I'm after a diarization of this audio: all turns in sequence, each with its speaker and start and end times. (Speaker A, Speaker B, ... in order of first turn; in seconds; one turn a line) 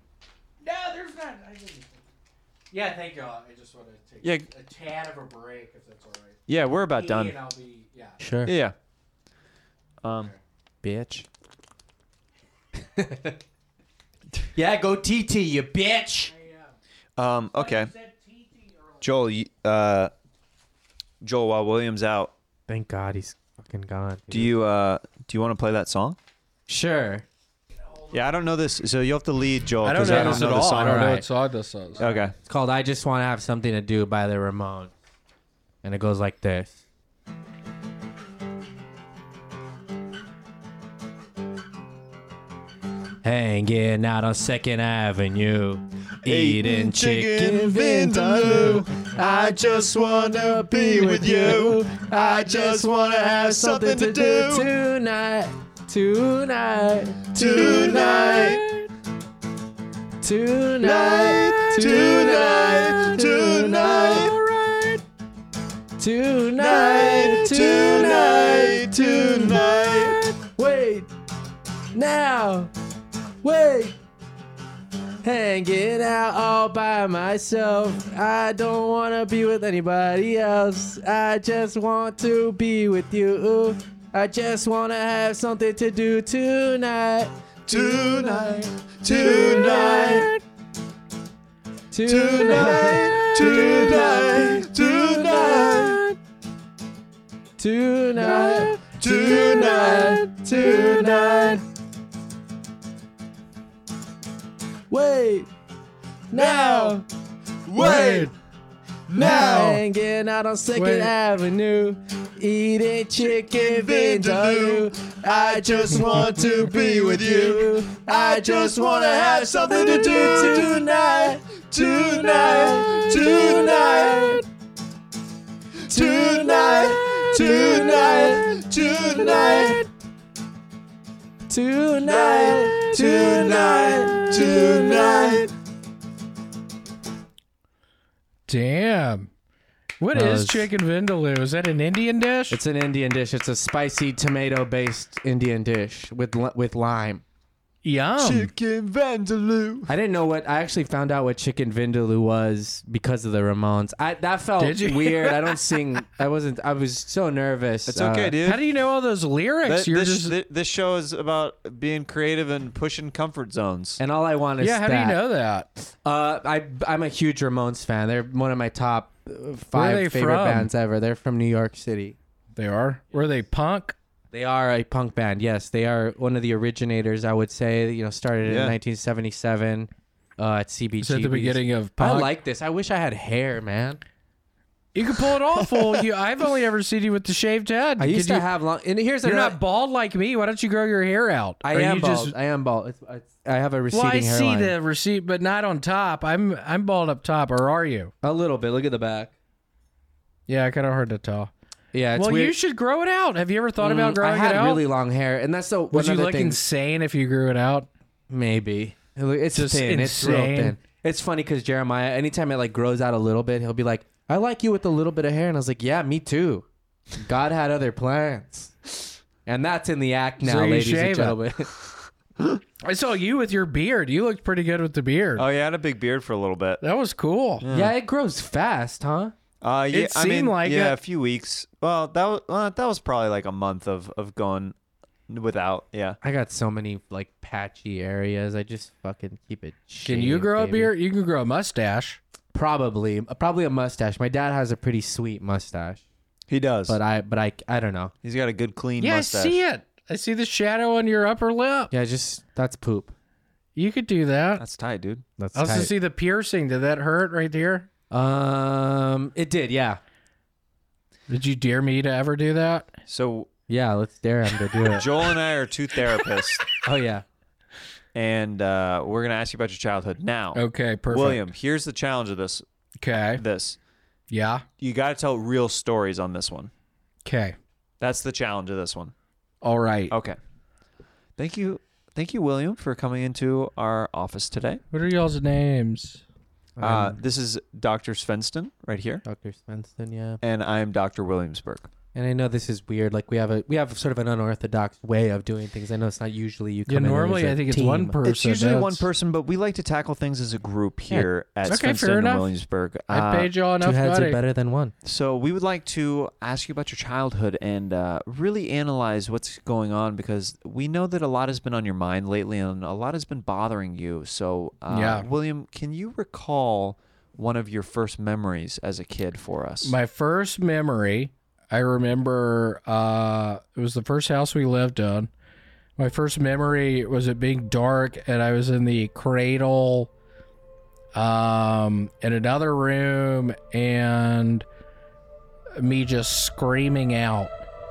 Speaker A: 0.6-2.0
Speaker A: 2.7-6.4
Speaker B: 4.2-4.5
Speaker B: 6.5-7.4
Speaker A: 6.9-8.2
Speaker C: 8.2-8.5
Speaker B: 8.5-8.8
Speaker B: 10.0-10.3
Speaker A: 10.1-10.4
Speaker C: 10.8-11.3
Speaker C: 13.0-13.4
Speaker C: 14.6-16.3
Speaker A: 16.3-16.8
Speaker B: 17.2-17.9
Speaker A: 17.6-19.0
Speaker B: 19.0-20.1
Speaker B: 21.2-22.3
Speaker C: 22.7-24.6
Speaker B: 24.3-26.2
Speaker C: 26.7-27.3
Speaker B: 28.1-31.2
Speaker A: 29.8-32.2
Speaker C: 29.9-31.2
Speaker B: 32.0-32.3
Speaker C: 32.4-34.9
Speaker C: 35.8-36.8
Speaker C: 43.2-58.7
Speaker B: 46.2-54.7
Speaker B: 57.3-58.6
Speaker C: 60.2-64.3
Speaker B: 60.8-64.3
Speaker A: 64.2-65.0
Speaker C: 66.0-71.1
Speaker B: 66.6-70.2
Speaker C: 71.9-72.7
Speaker C: 73.4-74.0
Speaker C: 75.2-88.5
Speaker B: 87.7-90.3
Speaker C: 89.1-90.4
Speaker C: 91.9-96.2
Speaker B: 92.1-96.0
Speaker C: 97.6-101.6
Speaker B: 98.9-101.6
Speaker C: 104.9-105.5
Speaker C: 106.3-107.0
Speaker B: 106.3-107.0
Speaker B: 107.7-108.2
Speaker A: 107.8-108.3
Speaker C: 107.8-108.3
Speaker B: 109.1-109.8
Speaker C: 109.1-124.4
Speaker A: 109.2-109.7
Speaker A: 110.7-111.1
Speaker B: 113.4-124.4
Speaker B: 125.9-129.8
Speaker C: 125.9-129.8
Speaker C: 131.5-135.5
Speaker B: 132.0-135.5
Speaker A: 138.5-139.3
Speaker A: 140.0-142.6
Speaker C: 140.1-140.7
Speaker C: 142.5-147.2
Speaker A: 147.8-148.5
Speaker B: 148.2-149.9
Speaker C: 149.9-158.4
Speaker A: 154.6-155.8
Speaker B: 157.9-158.6
Speaker A: 158.4-160.3
Speaker B: 159.7-164.0
Speaker C: 164.0-165.2
Speaker A: 164.6-165.7
Speaker C: 165.9-172.2
Speaker A: 169.7-170.7
Speaker A: 172.6-174.0
Speaker C: 174.3-184.0
Speaker B: 178.4-178.8
Speaker A: 181.0-182.3
Speaker A: 184.9-188.5
Speaker C: 188.0-189.6
Speaker A: 189.2-192.3
Speaker C: 191.6-194.8
Speaker A: 193.9-198.1
Speaker C: 198.2-199.3
Speaker A: 200.5-201.5
Speaker C: 201.9-202.6
Speaker A: 202.1-204.8
Speaker C: 203.8-206.6
Speaker A: 205.9-207.9
Speaker C: 208.3-216.7
Speaker A: 209.5-210.8
Speaker C: 217.2-221.7
Speaker A: 220.4-221.4
Speaker A: 222.8-225.5
Speaker B: 225.4-226.8
Speaker A: 226.8-227.7
Speaker B: 227.6-227.9
Speaker C: 227.7-229.3
Speaker B: 229.6-234.8
Speaker A: 229.9-231.0
Speaker B: 235.3-236.2
Speaker C: 236.2-240.9
Speaker A: 240.1-242.2
Speaker C: 242.5-246.0
Speaker B: 246.5-247.0
Speaker C: 246.9-248.1
Speaker B: 248.2-249.6
Speaker A: 249.0-251.9
Speaker C: 251.9-253.1
Speaker A: 253.8-254.6
Speaker B: 254.6-255.2
Speaker C: 255.4-255.9
Speaker A: 255.6-257.9
Speaker C: 258.1-260.0
Speaker A: 261.3-263.0
Speaker B: 263.1-263.5
Speaker C: 263.7-265.1
Speaker B: 264.9-266.7
Speaker C: 266.8-267.2
Speaker B: 268.1-272.6
Speaker A: 270.6-271.4
Speaker A: 273.0-273.4
Speaker B: 273.3-273.8
Speaker A: 274.3-274.6
Speaker B: 274.8-276.7
Speaker A: 277.2-277.6
Speaker B: 278.0-279.1
Speaker A: 279.6-280.1
Speaker B: 280.1-280.4
Speaker B: 281.4-284.8
Speaker A: 284.9-286.2
Speaker C: 286.8-287.2
Speaker B: 286.8-289.2
Speaker C: 289.2-290.4
Speaker B: 290.4-291.9
Speaker C: 292.1-298.2
Speaker A: 296.9-299.1
Speaker B: 298.2-303.5
Speaker A: 301.6-302.5
Speaker A: 303.1-304.4
Speaker C: 303.8-304.9
Speaker B: 305.0-319.9
Speaker A: 314.9-315.3
Speaker A: 319.8-325.3
Speaker A: 326.0-330.1
Speaker A: 331.1-334.7
Speaker A: 335.8-337.6